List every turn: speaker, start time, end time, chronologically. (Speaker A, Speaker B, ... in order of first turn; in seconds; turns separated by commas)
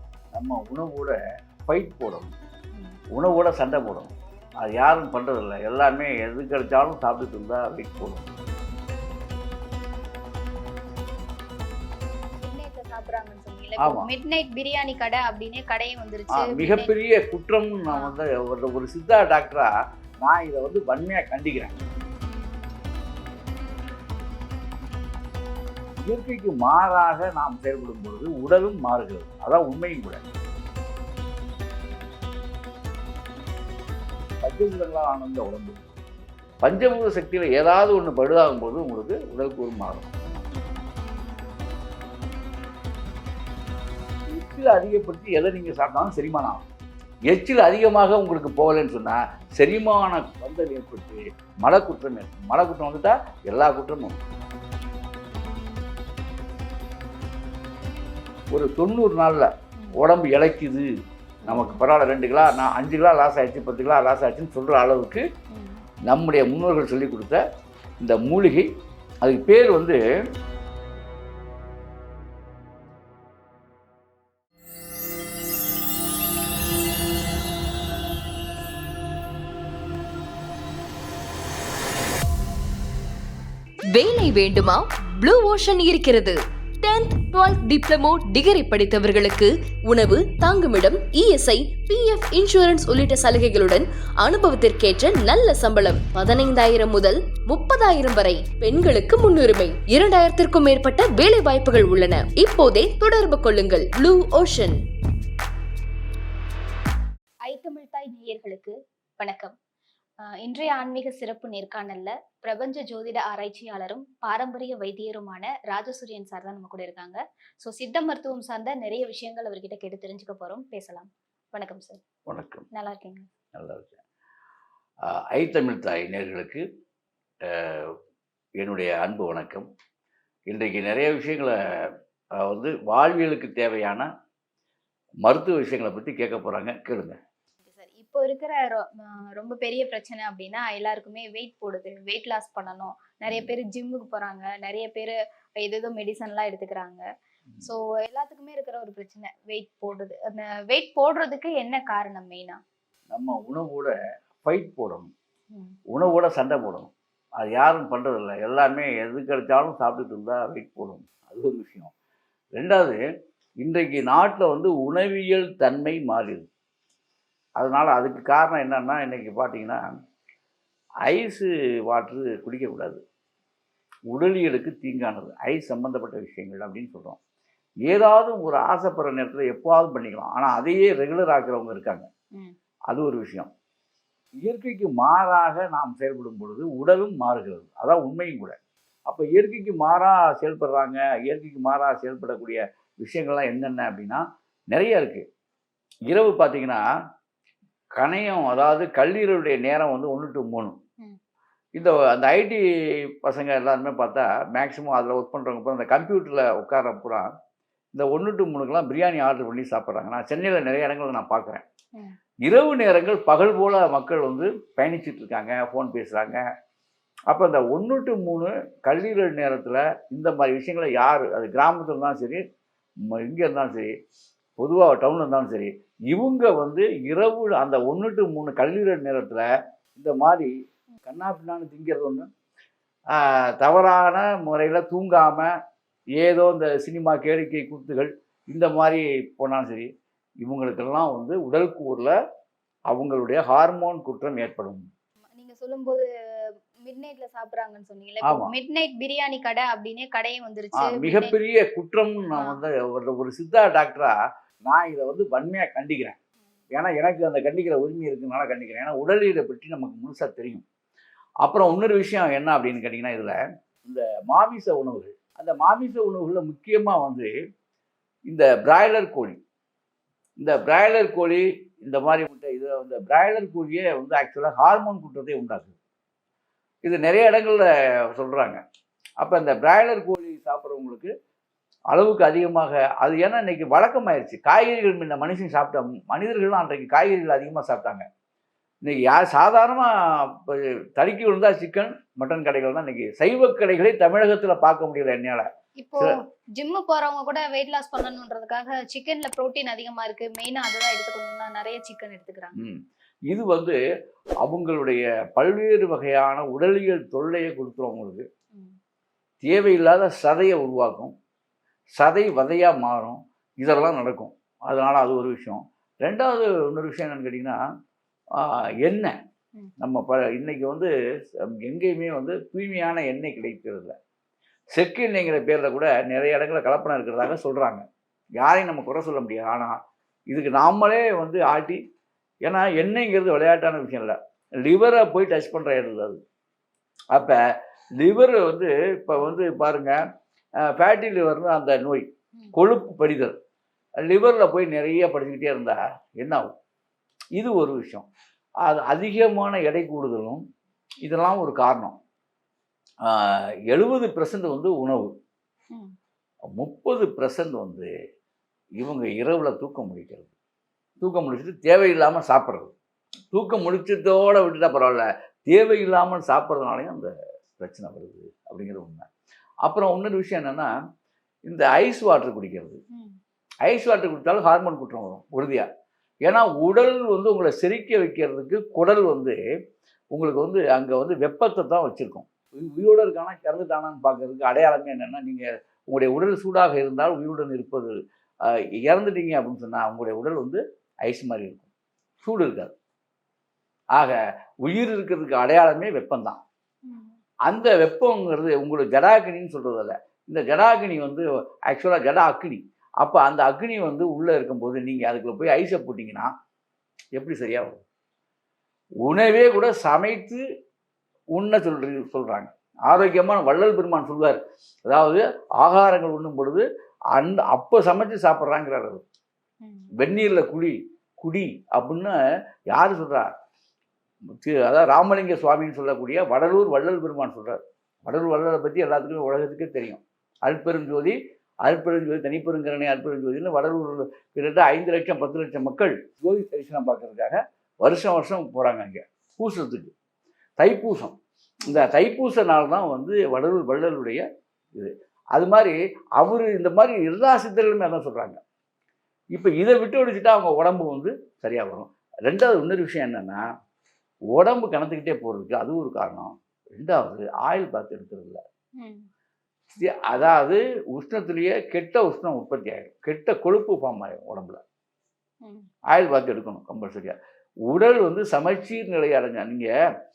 Speaker A: 0.3-1.2, Speaker A: 1.7-2.3, Speaker A: 3.2-8.3, Speaker B: 12.4-16.9, Speaker A: 13.8-14.1, Speaker A: 16.3-19.7, Speaker A: 20.2-21.8, Speaker A: 26.1-30.2, Speaker A: 34.4-35.8, Speaker A: 36.6-40.1, Speaker A: 44.3-46.6, Speaker A: 47.3-54.2, Speaker A: 58.5-60.9, Speaker B: 61.4-61.9, Speaker A: 61.5-65.2, Speaker B: 65.5-65.8, Speaker A: 66.1-67.4, Speaker A: 68.0-68.7, Speaker A: 69.2-70.0, Speaker C: 83.9-104.8, Speaker B: 107.5-109.5, Speaker B: 110.5-122.0, Speaker A: 122.3-122.7, Speaker B: 122.7-123.3, Speaker A: 123.5-124.0, Speaker A: 125.0-126.6, Speaker A: 127.4-127.9, Speaker A: 128.6-129.7, Speaker A: 130.5-131.5, Speaker A: 132.4-134.1, Speaker A: 135.2-137.2, Speaker B: 137.6-147.0, Speaker B: 147.6-152.6, Speaker A: 153.1-155.1, Speaker A: 155.9-161.9, Speaker A: 162.5-163.0, Speaker A: 163.6-166.5, Speaker A: 167.6-169.9, Speaker A: 171.1-173.0, Speaker A: 174.1-177.2, Speaker A: 177.8-182.1, Speaker A: 182.9-183.5, Speaker A: 184.4-195.2, Speaker A: 196.1-196.8, Speaker A: 198.0-200.8, Speaker A: 201.8-202.6, Speaker A: 203.2-207.3, Speaker A: 207.9-211.6, Speaker A: 212.4-216.4, Speaker A: 217.3-222.4, Speaker A: 223.1-223.9, Speaker A: 224.6-230.5, Speaker A: 231.1-232.3, Speaker A: 233.1-235.5, Speaker A: 236.2-239.9, Speaker A: 240.4-242.1, Speaker A: 242.9-244.8, Speaker B: 245.4-246.0, Speaker B: 246.8-251.3, Speaker A: 248.2-248.5, Speaker A: 250.8-256.2, Speaker A: 256.7-260.6, Speaker A: 261.4-267.3, Speaker A: 268.3-269.4, Speaker A: 270.4-275.8, Speaker A: 276.8-278.6, Speaker A: 279.2-281.1, Speaker A: 281.9-288.0, Speaker A: 288.8-295.5, Speaker B: 295.8-302.6, Speaker A: 302.6-303.8, Speaker A: 304.4-308.2, Speaker A: 309.4-311.1, Speaker A: 312.0-317.6, Speaker A: 318.4-319.1, Speaker A: 319.8-320.9, Speaker A: 321.5-323.9, Speaker A: 324.7-327.8, Speaker A: 328.4-329.8, Speaker A: 330.3-331.8, Speaker A: 332.4-336.2, Speaker A: 337.1-337.4, Speaker A: 338.0-340.0, Speaker A: 340.7-343.4, Speaker A: 344.0-346.5, Speaker A: 347.4-348.1, Speaker A: 348.6-350.4, Speaker A: 351.0-352.0, Speaker A: 353.1-355.1, Speaker A: 356.6-357.9, Speaker A: 358.8-360.3, Speaker A: 361.0-362.7, Speaker A: 363.3-369.1, Speaker A: 369.6-370.7, Speaker A: 371.5-372.8, Speaker A: 373.6-375.7, Speaker A: 376.2-379.4, Speaker A: 380.1-387.9, Speaker A: 388.5-391.7, Speaker A: 392.2-392.7, Speaker A: 394.0-396.4, Speaker B: 396.9-397.2, Speaker A: 397.5-406.3, Speaker A: 407.1-407.8, Speaker A: 409.1-410.4, Speaker A: 411.4-416.6, Speaker A: 417.2-419.0, Speaker B: 419.6-419.9, Speaker A: 420.0-422.2, Speaker A: 422.7-423.3, Speaker A: 424.4-439.9, Speaker A: 440.6-444.2, Speaker A: 444.8-448.4, Speaker A: 449.3-453.4, Speaker A: 454.4-458.4, Speaker B: 458.8-459.1, Speaker A: 459.8-464.6, Speaker A: 465.9-467.2, Speaker A: 467.7-469.7